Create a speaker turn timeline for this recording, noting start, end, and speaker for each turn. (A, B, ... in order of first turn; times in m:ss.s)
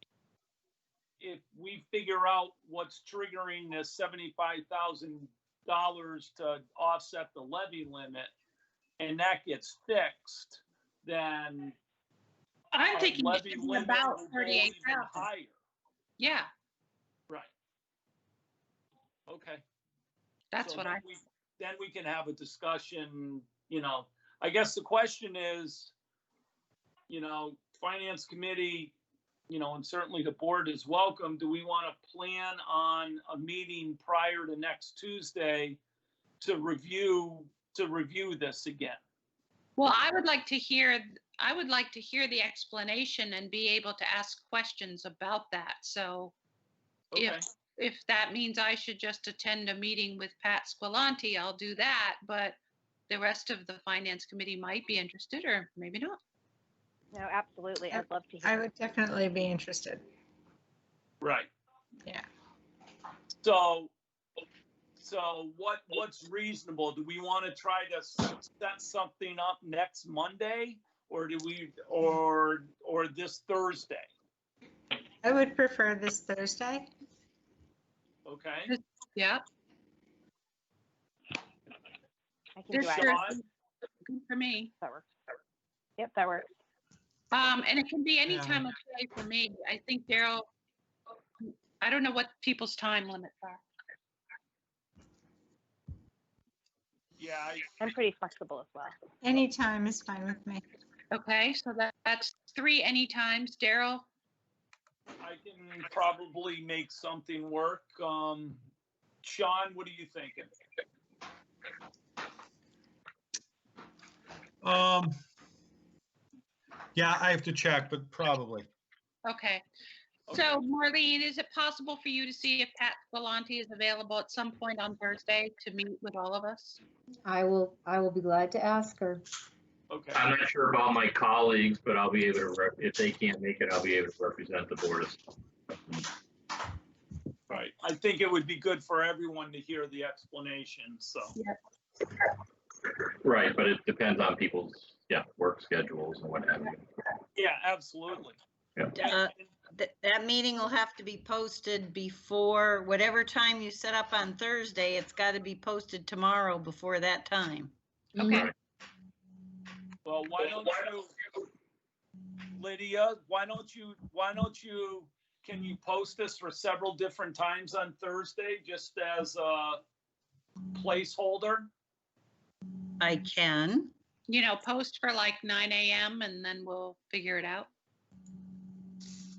0:01.2-0:08.3 A
0:09.0-0:11.8 A
0:12.7-0:15.2 B
0:12.9-0:15.5 A
0:16.2-0:16.5 B
0:19.3-0:19.6 A
0:20.5-0:21.0 B
0:20.6-0:25.9 A
0:27.1-0:28.9 A
0:29.5-0:35.8 A
0:36.4-0:39.0 A
0:39.8-0:46.3 B
0:47.1-0:47.4 A
0:47.1-0:52.6 B
0:53.1-0:56.2 B
0:57.1-0:58.6 C
0:57.9-1:00.0 D
1:01.2-1:01.5 A
1:03.4-1:03.9 A
1:05.0-1:14.1 A
1:15.2-1:16.9 D
1:18.2-1:18.7 A
1:18.7-1:19.4 B
1:22.6-1:23.3 C
1:22.7-1:23.4 B
1:22.8-1:23.4 A
1:24.0-1:24.7 B
1:26.0-1:26.4 C
1:27.3-1:30.4 B
1:28.3-1:28.6 E
1:31.4-1:33.6 B
1:37.2-1:37.7 A
1:37.8-1:38.9 C
1:39.2-1:40.6 D
1:41.1-1:44.0 B
1:45.2-1:48.6 A
1:49.2-1:50.5 A
1:54.6-1:55.1 E
1:56.9-1:58.7 E
1:59.2-1:59.6 B
2:00.3-2:00.6 A
2:00.3-2:06.8 B
2:07.3-2:09.2 F
2:09.9-2:10.2 A
2:10.1-2:15.2 G
2:17.5-2:21.4 A
2:23.0-2:26.8 G
2:27.3-2:28.4 A
2:28.8-2:29.1 G
2:29.0-2:37.7 H
2:29.0-2:29.3 A
2:38.2-2:38.4 F
2:38.2-2:38.5 G
2:40.0-2:41.1 A
2:42.5-2:49.8 A
2:50.7-2:51.7 A
2:53.0-2:53.9 H
2:54.3-2:57.7 B